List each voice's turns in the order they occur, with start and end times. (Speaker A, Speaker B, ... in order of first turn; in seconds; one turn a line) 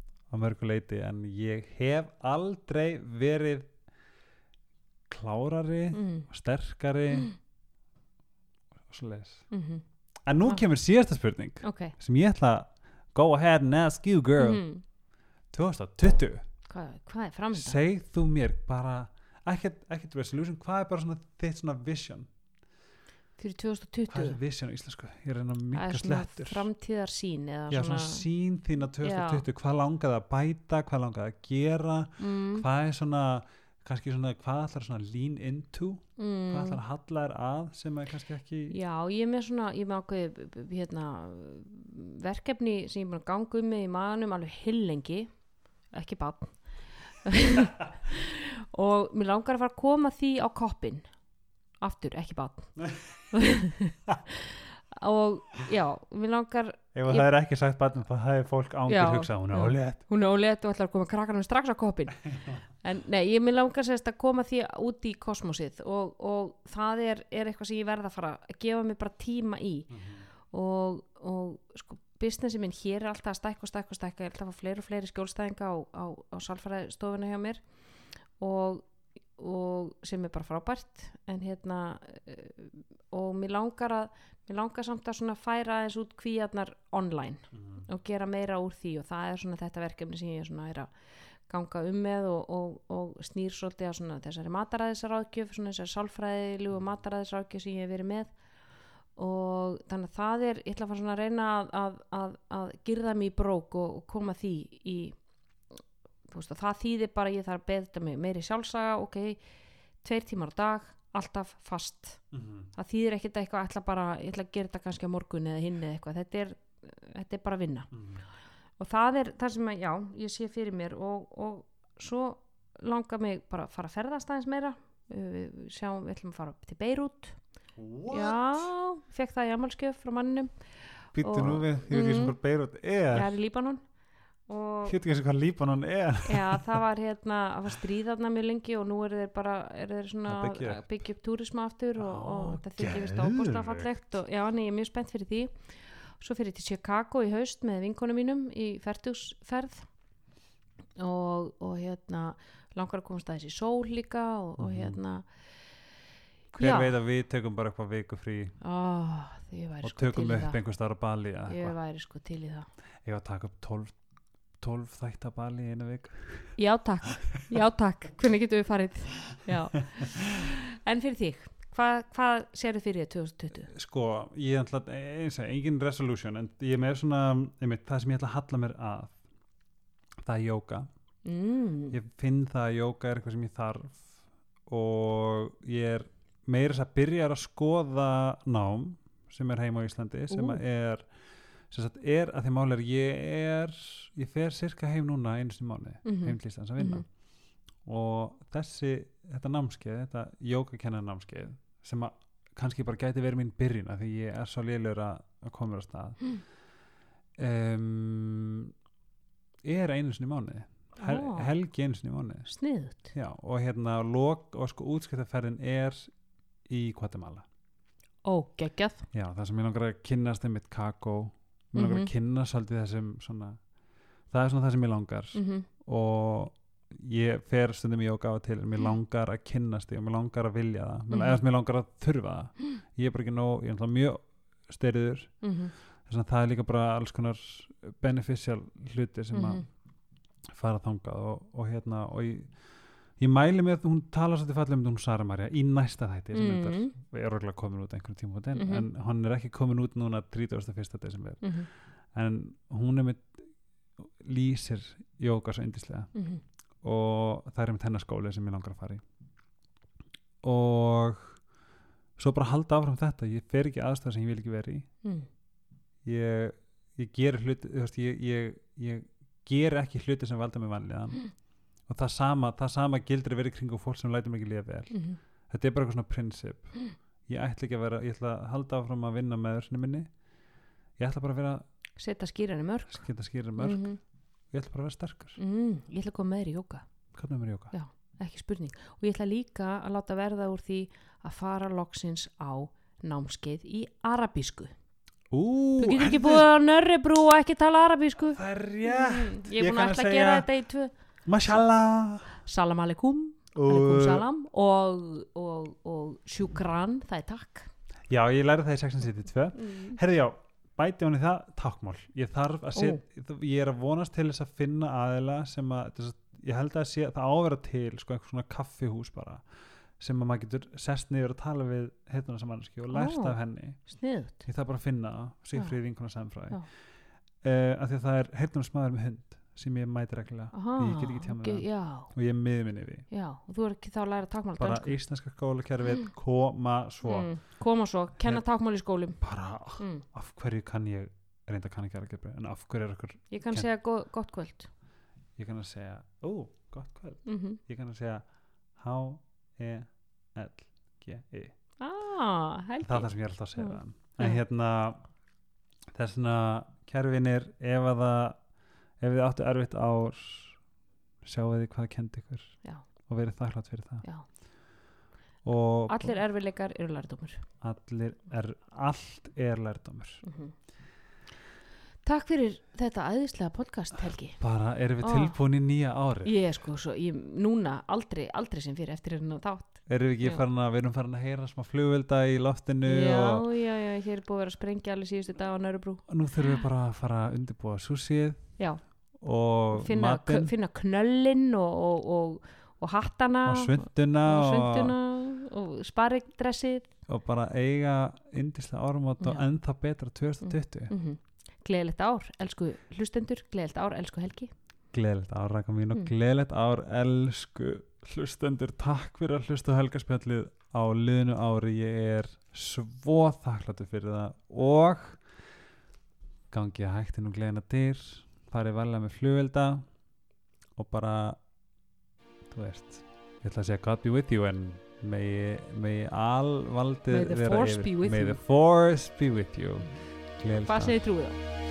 Speaker A: 0.3-3.7
Speaker A: 5.1-7.3
Speaker B: 5.9-6.3
Speaker A: 8.9-9.4
Speaker B: 9.5-9.8
Speaker A: 10.2-14.6
Speaker B: 11.6-11.9
Speaker B: 14.4-14.8
Speaker A: 15.5-16.4
Speaker B: 16.7-17.8
Speaker A: 17.5-22.3
Speaker B: 23.4-24.4
Speaker A: 24.1-26.7
Speaker B: 25.7-28.3
Speaker A: 27.7-38.8
Speaker B: 29.0-29.4
Speaker B: 32.2-32.6
Speaker B: 36.2-36.8
Speaker B: 38.7-45.3
Speaker B: 45.9-51.1
Speaker B: 51.8-57.3
Speaker A: 56.9-60.0
Speaker B: 58.9-69.9
Speaker A: 69.9-70.2
Speaker B: 70.5-77.6
Speaker B: 78.4-78.8
Speaker B: 79.4-90.9
Speaker A: 87.6-87.8
Speaker B: 91.5-98.3
Speaker B: 99.2-105.2
Speaker B: 106.3-109.4
Speaker B: 110.0-112.2
Speaker A: 112.3-112.7
Speaker B: 112.8-117.9
Speaker A: 117.9-118.2
Speaker B: 118.8-127.4
Speaker A: 127.8-128.7
Speaker B: 128.1-132.3
Speaker A: 131.1-133.3
Speaker B: 133.1-133.8
Speaker B: 134.5-135.0
Speaker A: 134.8-136.8
Speaker B: 136.2-149.9
Speaker A: 140.3-140.8
Speaker A: 142.0-143.9
Speaker B: 151.0-155.3
Speaker A: 154.6-155.0
Speaker A: 156.5-158.6
Speaker B: 156.6-156.9
Speaker B: 158.6-160.6
Speaker A: 159.8-161.8
Speaker B: 161.4-162.7
Speaker A: 163.0-164.0
Speaker A: 164.6-166.6
Speaker B: 166.6-173.7
Speaker A: 173.7-179.2
Speaker A: 180.2-180.9
Speaker B: 181.2-182.0
Speaker A: 181.9-184.1
Speaker A: 184.7-191.1
Speaker B: 190.3-190.6
Speaker A: 191.7-197.1
Speaker B: 196.0-197.0
Speaker A: 197.8-206.3
Speaker A: 207.4-208.7
Speaker A: 209.6-212.5
Speaker B: 211.0-211.5
Speaker B: 212.5-213.1
Speaker A: 213.1-216.1
Speaker A: 216.7-217.4
Speaker B: 218.2-219.1
Speaker A: 219.1-223.6
Speaker B: 221.8-222.1
Speaker A: 224.3-235.4
Speaker B: 225.3-225.7
Speaker B: 231.1-231.4
Speaker B: 235.4-235.7
Speaker A: 236.1-239.7
Speaker B: 239.3-239.7
Speaker A: 240.5-242.5
Speaker A: 243.2-251.5
Speaker B: 246.3-246.9
Speaker B: 248.6-248.8
Speaker B: 251.4-251.7
Speaker A: 252.1-253.4
Speaker A: 254.0-256.1
Speaker B: 256.1-256.4
Speaker A: 256.8-259.0
Speaker A: 260.4-261.4
Speaker A: 262.2-264.9
Speaker A: 266.0-271.3
Speaker A: 271.9-275.0
Speaker B: 274.9-275.2
Speaker A: 275.5-276.7
Speaker A: 277.3-280.1
Speaker A: 281.0-281.6
Speaker B: 282.0-283.0
Speaker A: 282.9-283.9
Speaker B: 283.6-284.0
Speaker A: 284.5-285.4
Speaker B: 285.4-286.9
Speaker A: 287.1-287.7
Speaker B: 287.7-294.7
Speaker A: 295.3-296.4
Speaker B: 295.8-300.9
Speaker A: 298.3-300.5
Speaker A: 301.2-302.4
Speaker B: 302.4-307.7
Speaker A: 303.5-304.2
Speaker A: 308.1-319.4
Speaker B: 309.6-310.0
Speaker B: 312.7-313.0
Speaker A: 320.0-323.9
Speaker B: 322.9-324.4
Speaker A: 324.4-326.7
Speaker A: 327.4-333.0
Speaker B: 330.5-332.1
Speaker B: 333.1-334.9
Speaker A: 334.6-337.3
Speaker B: 337.0-339.2
Speaker A: 339.2-343.7
Speaker B: 339.8-340.0
Speaker B: 343.3-344.7
Speaker A: 345.4-348.2
Speaker B: 347.2-347.6
Speaker A: 348.8-351.5
Speaker B: 351.8-354.4
Speaker A: 352.8-355.0
Speaker A: 355.9-358.4
Speaker A: 359.0-360.6
Speaker A: 361.2-364.0
Speaker A: 365.4-366.2
Speaker B: 365.9-367.4
Speaker A: 367.6-370.2
Speaker B: 370.2-370.5
Speaker B: 372.0-374.4
Speaker A: 374.4-376.3
Speaker B: 375.0-375.4
Speaker B: 376.2-380.4
Speaker A: 379.9-383.4
Speaker B: 382.9-386.0
Speaker A: 386.1-388.6
Speaker A: 389.2-390.5
Speaker B: 389.7-396.9
Speaker A: 393.4-394.9
Speaker A: 397.1-400.9
Speaker B: 400.4-404.5
Speaker A: 404.9-415.2
Speaker A: 416.5-419.9
Speaker A: 420.8-421.4
Speaker A: 422.5-430.9
Speaker B: 427.1-428.4
Speaker B: 430.6-431.4